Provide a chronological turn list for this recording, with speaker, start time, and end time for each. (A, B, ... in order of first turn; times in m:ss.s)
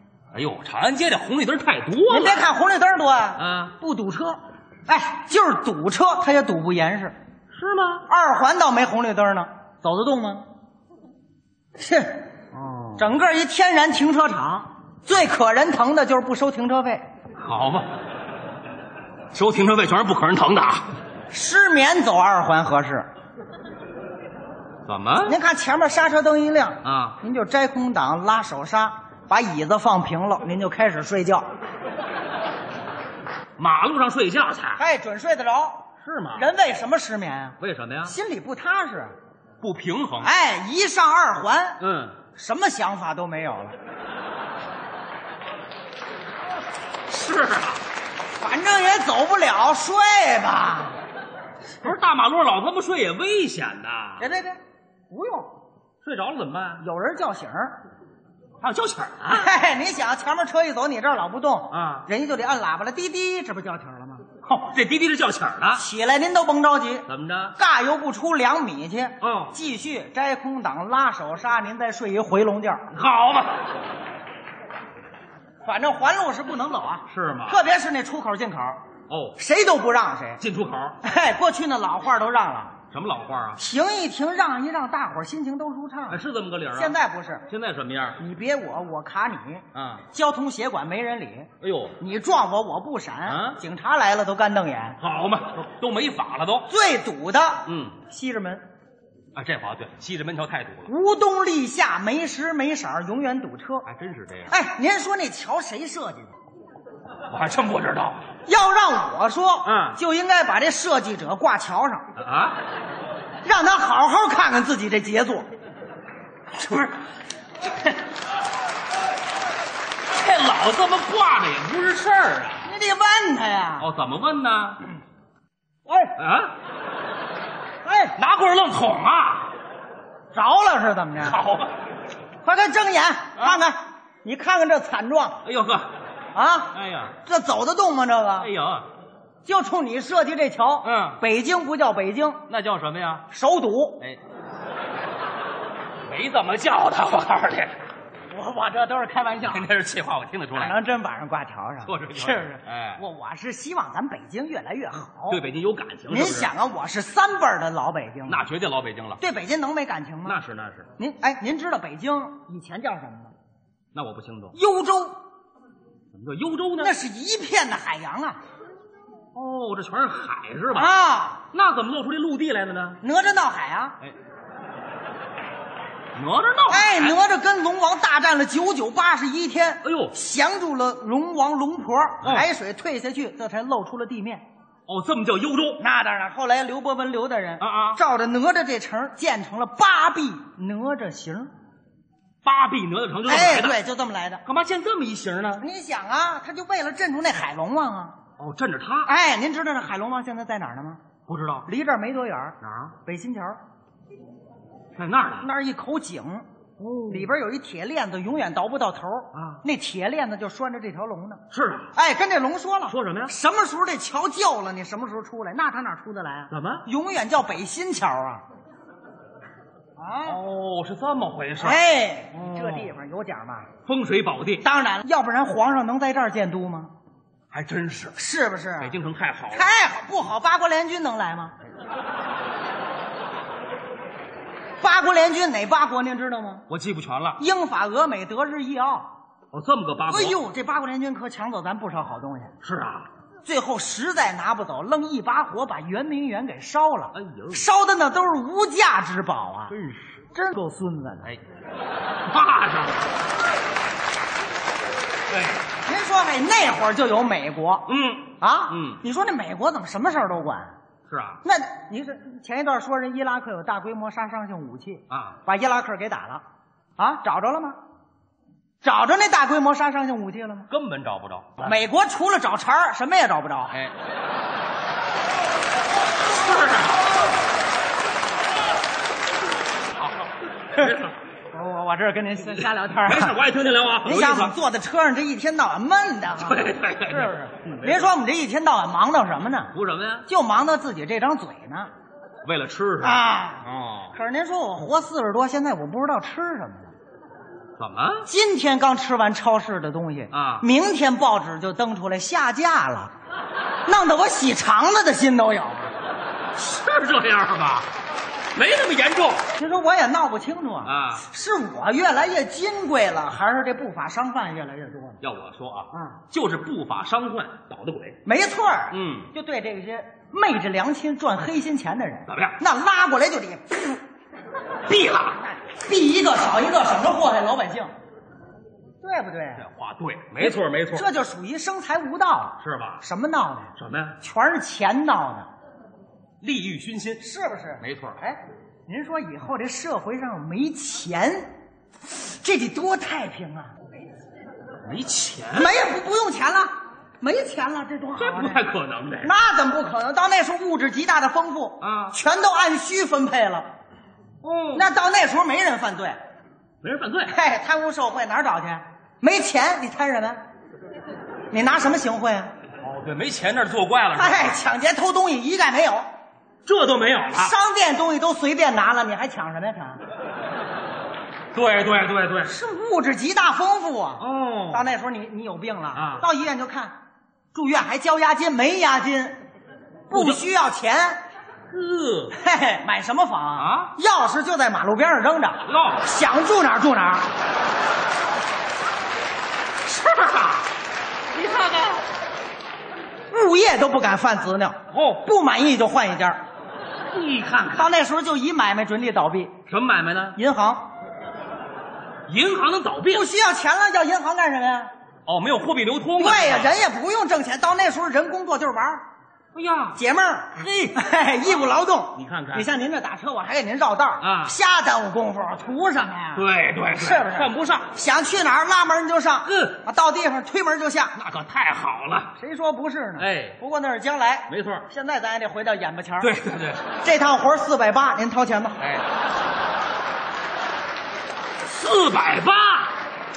0:00.3-0:02.4 A
0:02.1-0:07.2 B
0:03.4-0:03.8 A
0:07.5-0:08.0 A
0:08.1-0:10.4 B
0:11.8-0:12.3 B
0:12.5-0:13.1 A
0:13.0-0:17.1 B
0:17.4-0:17.9 A
0:19.3-0:20.9 A
0:21.3-0:23.1 B
0:24.9-0:25.4 A
0:25.2-0:31.5 B
0:26.8-0:27.2 A
0:33.6-0:34.8 A
0:34.8-0:39.2 B
0:36.0-0:36.5 A
0:37.6-0:38.2 A
0:39.6-0:40.3 A
0:40.2-0:41.8 B
0:41.8-0:42.2 A
0:42.4-0:43.8 B
0:47.1-0:47.8 A
0:48.4-0:51.0 B
0:51.8-0:54.3 A
0:54.2-0:54.6 B
0:55.1-0:55.5 B
0:56.0-0:56.8 A
0:56.8-0:57.8 B
0:58.6-0:59.5 A
0:59.3-1:04.2 B
1:01.7-1:02.1 A
1:04.4-1:05.8 A
1:05.7-1:07.1 B
1:07.1-1:07.6 A
1:07.6-1:12.9 B
1:09.2-1:09.6 A
1:12.9-1:13.5 A
1:15.6-1:18.8 B
1:17.1-1:17.6 A
1:19.1-1:19.4 A
1:19.4-1:20.4 B
1:20.4-1:21.0 A
1:21.0-1:22.8 B
1:22.9-1:23.6 A
1:23.6-1:26.2 B
1:26.1-1:27.0 A
1:26.7-1:27.5 B
1:27.5-1:28.2 A
1:28.2-1:35.0 B
1:29.7-1:30.0 A
1:31.6-1:32.0 A
1:33.3-1:33.6 A
1:35.0-1:36.7 A
1:36.7-1:38.6 B
1:37.7-1:38.0 A
1:39.4-1:40.9 A
1:40.9-1:43.9 B
1:43.9-1:44.6 A
1:44.5-1:46.3 B
1:47.3-1:48.2 A
1:48.5-1:52.1 B
1:49.6-1:50.0 A
1:52.2-1:52.6 A
1:53.4-1:55.5 B
1:56.5-1:57.0 A
2:00.1-2:02.7 A
2:02.6-2:03.9 B
2:03.8-2:04.8 A
2:05.9-2:06.2 B
2:06.2-2:06.5 A
2:07.8-2:08.2 B
2:08.2-2:09.5 A
2:10.3-2:11.4 B
2:11.2-2:11.8 A
2:12.4-2:15.4 B
2:15.4-2:15.9 A
2:16.4-2:18.5 B
2:16.7-2:17.2 A
2:18.4-2:18.9 A
2:19.4-2:22.4 B
2:20.8-2:21.2 A
2:22.5-2:23.3 A
2:23.3-2:24.0 B
2:26.1-2:27.7 A
2:28.3-2:29.7 B
2:29.4-2:30.8 A
2:30.5-2:35.4 B
2:31.9-2:33.0 A
2:35.3-2:36.5 A
2:36.1-2:38.4 B
2:38.3-2:39.2 A
2:39.2-2:40.4 B
2:40.3-2:40.9 A
2:41.0-2:43.3 B
2:43.9-2:44.6 A
2:44.5-2:45.2 B
2:46.1-2:46.9 A
2:46.8-2:48.4 B
2:49.4-2:50.9 A
2:50.7-2:51.4 B
2:51.5-2:53.0 A
2:53.0-2:54.0 B
2:56.2-2:57.2 A
2:56.7-3:04.4 B
2:59.8-3:00.2 A
3:02.2-3:02.5 A
3:04.9-3:05.8 A
3:05.8-3:11.5 B
3:07.6-3:08.0 A
3:12.4-3:13.8 A
3:13.2-3:14.4 B
3:14.4-3:15.6 A
3:15.6-3:18.2 B
3:18.4-3:19.1 A
3:19.0-3:21.0 B
3:21.3-3:21.7 A
3:21.7-3:23.6 B
3:22.6-3:23.0 A
3:25.0-3:25.5 A
3:25.4-3:26.5 B
3:26.8-3:27.3 A
3:27.1-3:31.4 B
3:29.3-3:29.6 A
3:31.5-3:31.9 A
3:31.9-3:38.4 B
3:32.9-3:33.3 A
3:36.5-3:36.8 A
3:40.0-3:40.4 B
3:40.2-3:42.9 A
3:41.6-3:43.7 B
3:43.9-3:44.6 A
3:44.6-3:46.9 B
3:47.5-3:48.2 A
3:48.2-3:49.0 B
3:48.8-3:49.7 A
3:49.5-3:51.5 B
3:54.8-3:56.7 B
3:56.7-3:57.4 A
3:57.4-3:59.1 B
3:59.5-4:00.4 A
4:00.1-4:02.5 B
4:02.6-4:03.1 A
4:03.4-4:09.7 B
4:07.1-4:07.7 A
4:09.7-4:10.1 A
4:10.4-4:11.3 B
4:12.3-4:13.0 A
4:15.3-4:15.6 A
4:15.8-4:17.9 B
4:17.9-4:19.0 A
4:18.4-4:20.7 B
4:21.1-4:21.4 A
4:21.4-4:26.4 B
4:25.1-4:25.4 A
4:27.0-4:27.8 B
4:28.8-4:30.7 B
4:30.7-4:31.8 A
4:31.6-4:33.8 B
4:36.3-4:37.0 A
4:40.0-4:41.2 A
4:41.5-4:43.4 B
4:42.5-4:44.5 A
4:44.0-4:49.7 B
4:46.4-4:48.1 A
4:49.7-4:50.3 A
4:50.3-4:51.9 B
4:52.4-4:54.2 A
4:53.0-4:56.9 B
4:57.8-4:58.3 A
4:58.2-5:03.1 B
5:00.3-5:00.7 A
5:03.9-5:05.9 B
5:06.6-5:07.9 A
5:08.6-5:09.4 A
5:09.6-5:15.2 B
5:10.8-5:11.2 A
5:15.2-5:18.2 A
5:18.3-5:24.0 B
5:18.9-5:19.3 A
5:22.3-5:22.6 A
5:24.9-5:25.4 A
5:25.2-5:27.9 B
5:29.0-5:29.6 B
5:29.6-5:31.1 A
5:30.4-5:35.5 B
5:32.6-5:33.0 A
5:33.8-5:34.2 A
5:36.4-5:37.3 A
5:37.2-5:41.5 B
5:37.8-5:38.2 A
5:42.1-5:43.7 B
5:44.8-5:45.8 A
5:45.5-5:48.6 B
5:48.2-5:49.3 A
5:49.2-5:53.7 B
5:51.8-5:52.2 A
5:54.4-5:54.9 A
5:54.7-5:56.2 B
5:56.8-5:57.4 A
5:57.3-6:00.4 B
6:01.5-6:02.5 B
6:02.8-6:04.6 A
6:04.1-6:06.1 B
6:06.7-6:07.5 A
6:07.3-6:10.0 B
6:11.5-6:12.5 A
6:12.4-6:17.0 B
6:14.2-6:14.9 A
6:15.9-6:16.2 A
6:17.5-6:19.4 B
6:20.1-6:20.4 A
6:20.1-6:21.2 B
6:21.7-6:22.4 A
6:22.3-6:27.3 B
6:23.6-6:23.9 A
6:25.7-6:26.0 A
6:29.9-6:30.6 A
6:31.4-6:32.0 A
6:33.3-6:36.4 B
6:34.9-6:35.2 A
6:37.1-6:37.9 A
6:37.7-6:39.5 B
6:39.7-6:40.4 A
6:40.4-6:40.9 B
6:42.3-6:43.3 A
6:43.1-6:44.9 B
6:45.3-6:46.8 A
6:46.2-6:49.0 B
6:49.6-6:50.0 A
6:50.0-7:01.2 B
6:50.6-6:51.0 A
6:52.2-6:52.7 A
6:54.2-6:54.6 A
6:56.4-6:57.9 A
6:59.5-6:59.8 A
7:01.2-7:02.3 A
7:02.4-7:06.3 B
7:03.2-7:03.6 A
7:04.5-7:04.9 A
7:06.2-7:06.9 A
7:07.0-7:08.9 B
7:11.7-7:13.0 A